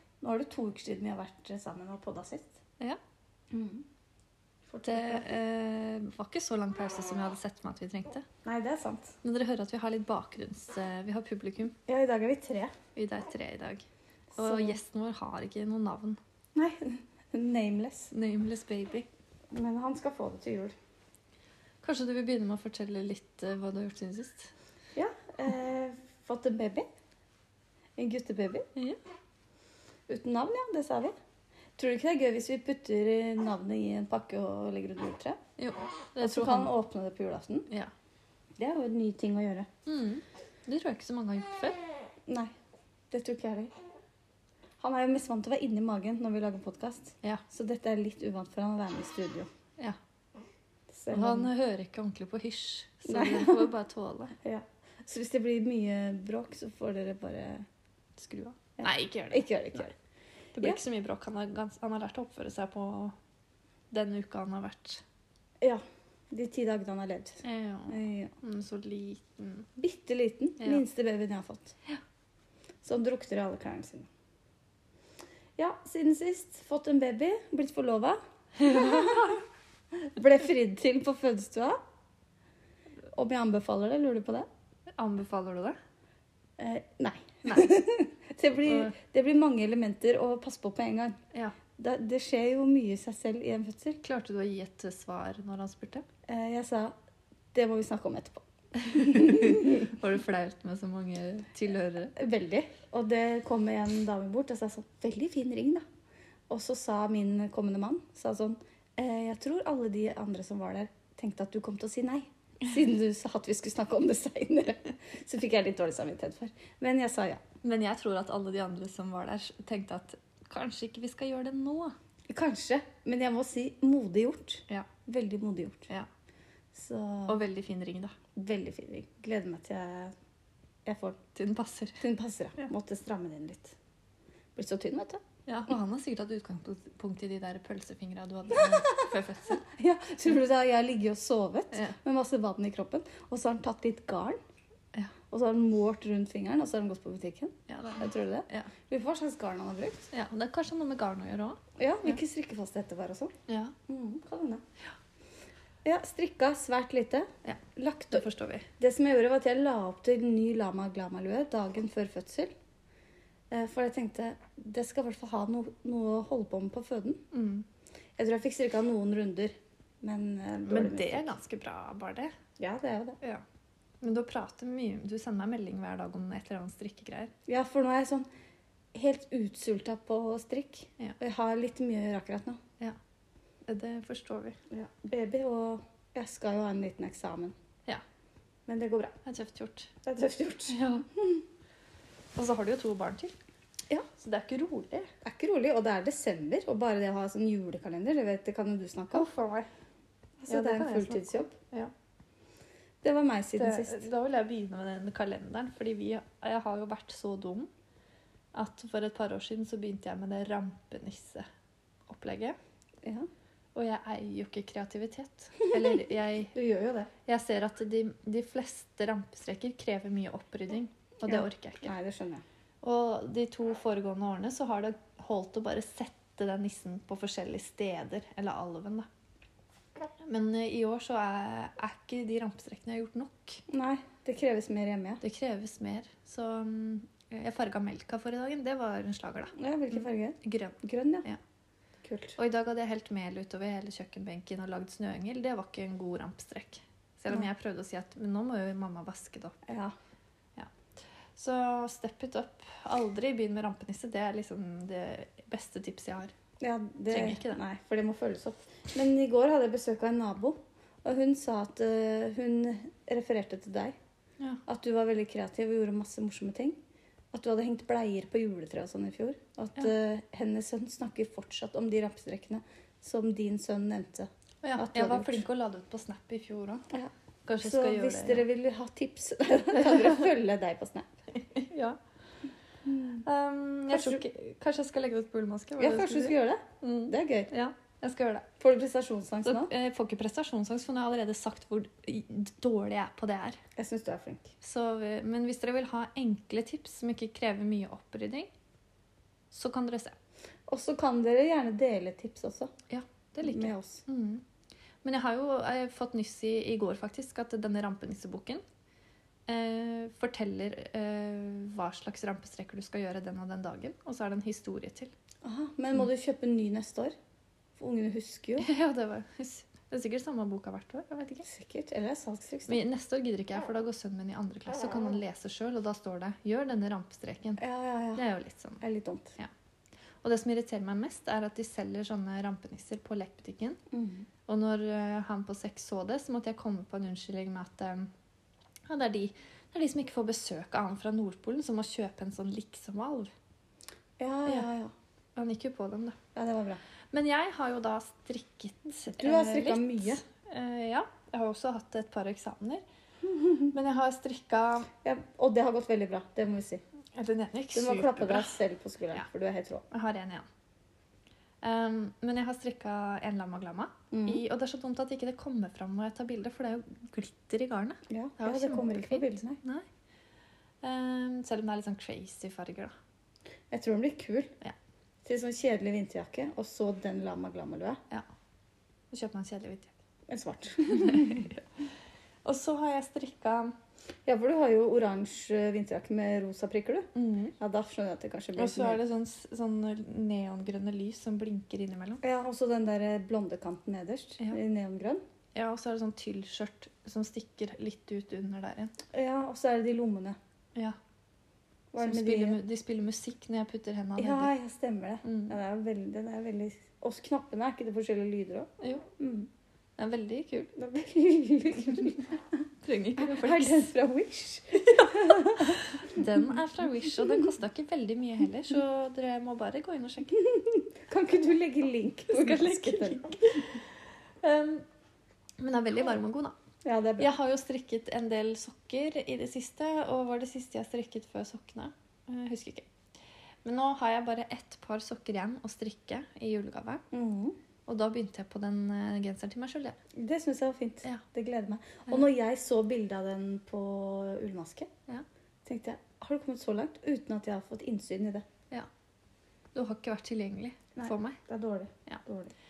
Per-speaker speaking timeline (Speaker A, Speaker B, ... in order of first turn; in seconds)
Speaker A: 0.2-2.6, 3.5-3.9, 4.7-5.3, 8.4-9.2, 11.9-12.7, 14.3-14.8, 16.6-18.1, 19.5-20.7, 24.9-26.9, 28.0-28.7, 30.1-31.1, 31.8-35.4, 36.2-37.7, 38.6-39.7, 43.1-43.7, 44.8-49.5, 50.9-51.5, 53.1-53.7, 54.4-57.7, 58.8-59.9, 65.6-68.3, 69.8-71.8, 72.8-74.1, 75.6-79.4, 79.9-81.8, 83.1-84.5, 86.6-91.2, 91.8-94.0, 96.3-96.9, 97.5-100.0, 102.2-105.8, 106.5-117.4, 122.3-125.9, 126.7-127.4, 128.3-130.1, 130.9-131.2, 132.0-133.8, 134.6-135.2, 138.5-139.1, 139.6-144.4, 145.3-150.1, 151.8-153.3, 153.9-154.6, 155.8-158.2, 158.8-162.5, 163.5-167.2, 168.2-171.3, 172.6-173.2, 177.5-178.3, 178.9-182.6, 184.7-187.5, 188.7-189.2, 190.0-191.4, 195.2-199.3, 200.4-201.5, 203.0-204.1, 213.0-213.3, 215.7-216.0, 216.5-217.1, 221.3-222.4, 233.7-235.2, 239.6-241.3, 242.0-242.4, 249.7-249.9, 256.6-264.0, 264.7-266.8, 267.3-275.5, 276.9-281.1, 282.9-283.2, 283.9-284.2, 285.8-287.5, 288.6-289.7, 293.8-294.5, 300.7-302.7, 303.4-304.0, 315.4-317.1, 317.8-318.7, 321.4-322.8, 327.6-328.2, 328.8-329.4, 333.9-334.3, 344.2-344.9, 346.4-346.8, 349.1-350.2, 353.2-353.7, 355.0-356.8, 357.7-359.9, 364.1-364.4, 368.1-369.6, 373.7-374.5, 375.2-378.0, 380.3-381.5, 384.3-389.0, 392.2-395.2, 399.1-400.4, 401.9-402.6, 404.2-409.5, 410.8-412.4, 413.2-416.3, 420.4-423.7, 426.8-427.3, 437.1-437.6, 440.2-444.9, 445.6-448.4, 451.0-452.5
Speaker B: 4.8-8.3, 9.2-11.8, 12.9-16.2, 18.1-19.1, 21.8-24.5, 35.6-36.7, 39.9-41.8, 51.1-54.4, 58.2-59.9, 60.5-63.1, 63.9-65.0, 67.4-69.7, 78.6-79.4, 85.0-85.8, 87.5-87.8, 88.6-89.0, 94.0-96.0, 98.8-102.2, 117.6-122.0, 127.3-128.2, 131.3-132.1, 135.5-139.7, 141.7-142.0, 147.7-148.7, 150.1-152.1, 153.5-153.8, 157.4-158.7, 167.3-167.7, 170.7-172.3, 174.0-177.3, 183.7-184.6, 189.2-189.9, 190.7-191.1, 192.3-193.3, 194.2-195.1, 199.1-199.7, 200.5-201.9, 203.6-207.7, 208.5-211.5, 212.1-212.6, 213.8-216.5, 217.3-221.9, 222.8-229.1, 230.2-233.6, 235.2-241.4, 242.4-249.7, 251.4-256.3, 257.1-257.6, 274.6-276.9, 277.5-278.5, 281.3-282.0, 283.2-288.5, 289.4-293.6, 294.6-298.5, 299.5-300.1, 302.9-304.4, 305.0-308.6, 309.5-315.1, 318.6-321.5, 322.7-327.6, 328.1-328.8, 330.2-333.8, 334.5-338.1, 338.9-343.3, 345.4-346.2, 347.1-352.8, 353.7-354.9, 357.1-358.6, 359.9-360.5, 361.6-369.9, 370.8-372.9, 379.1-380.0, 380.9-381.8, 382.4-383.8, 387.1-387.6, 388.6-392.2, 395.6-398.9, 402.0-404.5, 405.2-405.6, 410.0-410.7, 412.8-413.9, 414.9-420.4, 422.3-423.9, 424.4-424.8, 425.6-426.6, 427.2-432.9, 433.6-437.0, 437.9-440.0, 449.7-451.4